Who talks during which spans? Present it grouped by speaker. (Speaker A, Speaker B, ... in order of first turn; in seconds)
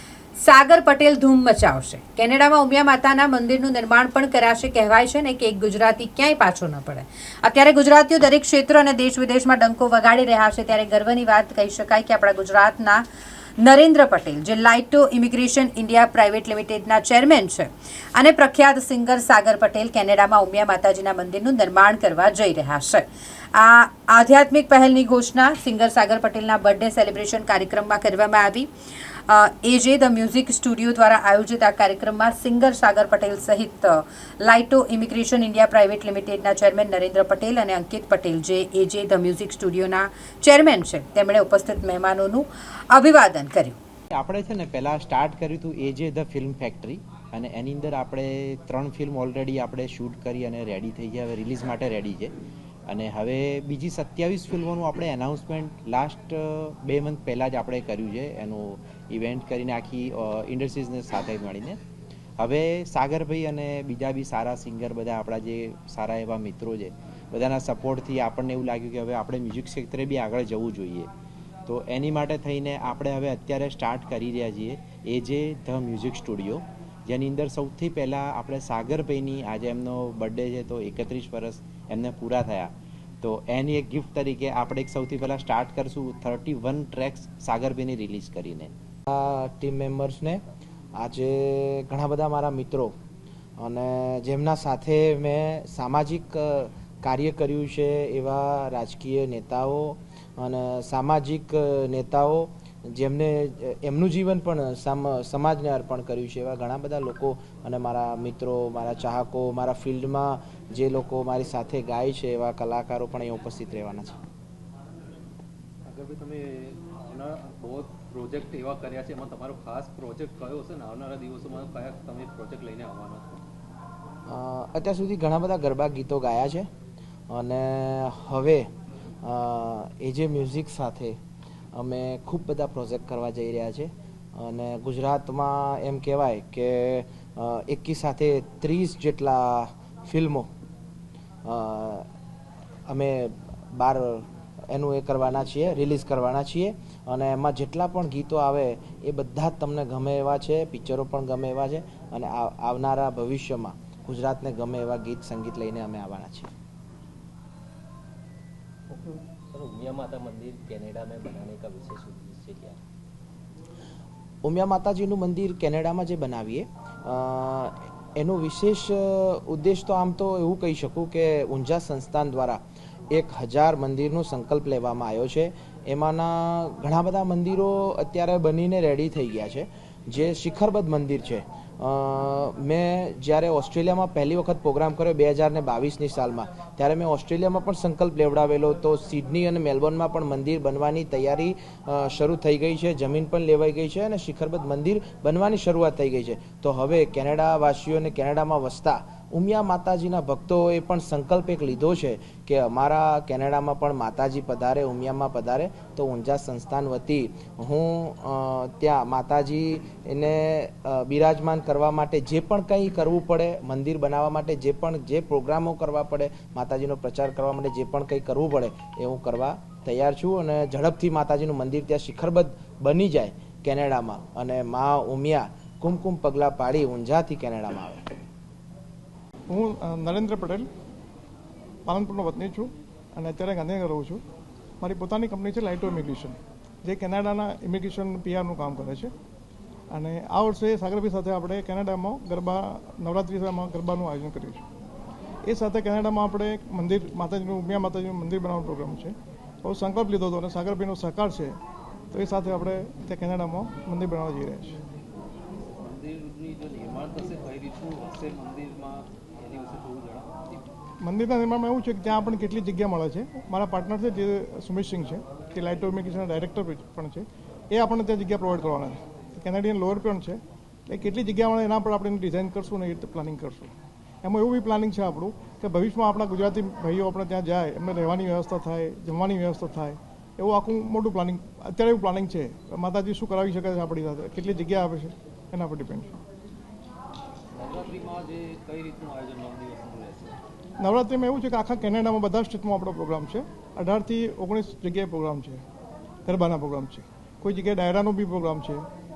Speaker A: 0.4-13.0, 13.6-28.7, 29.3-43.8
Speaker B: 44.1-52.3, 52.9-61.8, 62.4-71.1, 71.7-82.7, 83.2-88.7
Speaker C: 89.1-90.4, 91.0-92.9, 93.6-114.2, 124.3-126.7, 127.3-128.7, 129.2-131.2, 131.7-140.5, 141.4-142.1, 142.9-156.5, 164.4-172.6, 173.1-228.0
Speaker D: 115.9-123.4, 255.8-260.6, 287.6-290.4
Speaker E: 158.9-162.8
Speaker F: 229.5-230.7, 231.9-234.2, 234.8-239.1, 239.9-244.6, 245.5-251.6, 252.1-254.8, 261.0-273.7, 274.2-286.1, 290.8-295.6, 296.3-298.9